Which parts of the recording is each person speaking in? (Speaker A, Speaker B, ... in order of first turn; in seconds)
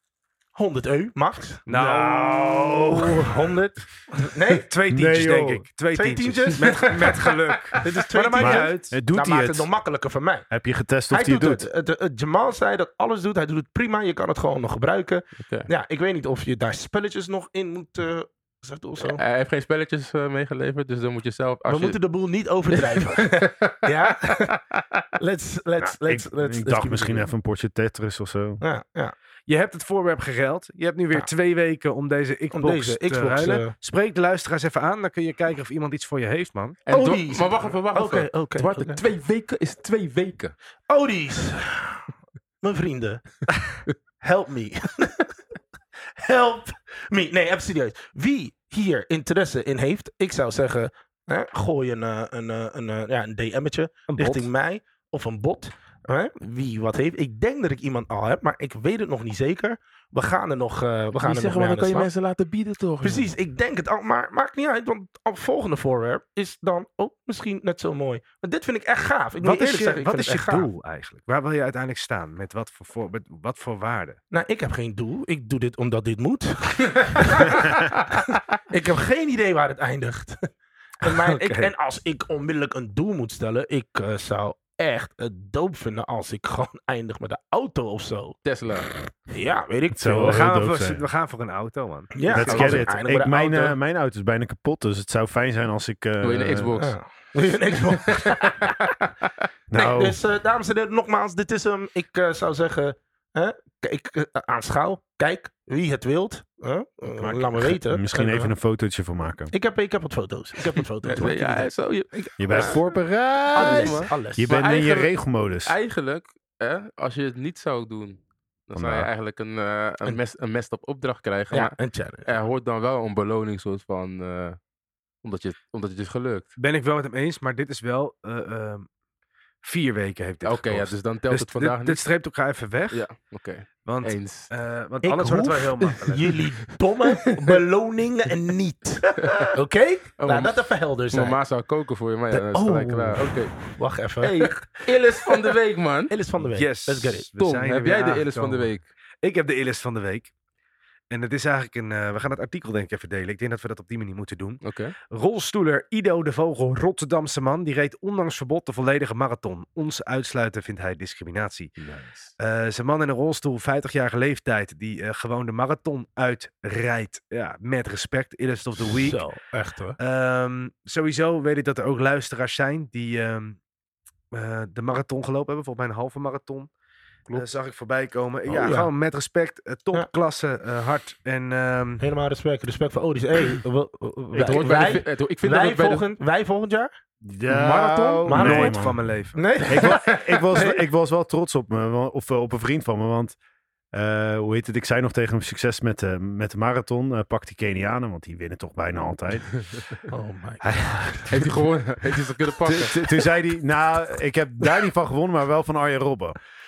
Speaker A: 0.5-1.6, 2.8-4.7, 5.9-6.9, 7.8-10.5, 11.1-19.2, 21.7-24.6, 25.2-27.3, 28.6-29.1, 32.5-33.7, 36.9-39.0, 40.9-42.1, 42.6-43.4, 44.2-45.3, 46.1-62.1, 63.0-70.7, 74.3-77.9, 78.7-80.4, 81.0-88.3, 89.3-90.4, 92.1-93.8, 96.8-98.9, 99.7-108.5, 109.5-112.8, 113.5-114.5, 121.5-122.3, 135.0-141.4, 142.3-145.5, 146.1-147.3, 168.8-170.0, 178.5-178.9, 182.0-186.9, 188.3-188.7, 189.3-190.8, 200.1-201.3
Speaker B: 1.7-3.1, 4.5-9.0, 29.5-36.8, 54.1-54.5, 69.4-74.2, 81.0-81.7, 90.2-92.9, 126.6-128.9, 129.6-133.0, 133.8-136.4, 146.5-150.3, 151.1-161.7, 162.4-169.2, 170.0-173.6, 174.3-176.7, 177.3-182.0, 188.4-189.4
Speaker C: 1.7-3.5, 4.9-5.7, 8.3-9.7, 10.5-11.7, 25.8-28.6, 89.9-91.0, 92.3-96.8, 99.7-100.2, 107.3-109.5, 112.4-115.8, 118.7-119.1, 184.3-184.9, 187.2-189.0, 189.7-193.4, 193.9-199.5, 202.6-206.3
Speaker D: 6.6-7.9, 15.4-15.7, 19.0-22.0, 22.7-25.0, 36.9-40.5, 61.2-63.3, 76.9-77.5, 88.4-88.9, 96.2-97.0, 97.9-98.7, 111.0-112.8, 113.5-124.6, 125.2-126.5, 130.4-132.0, 132.9-134.5, 137.1-137.6, 139.2-139.5, 140.2-143.6, 144.2-146.1, 147.4-148.8, 154.6-154.9, 161.8-162.3, 184.3-186.1, 187.5-188.4, 189.8-190.4, 201.3-203.3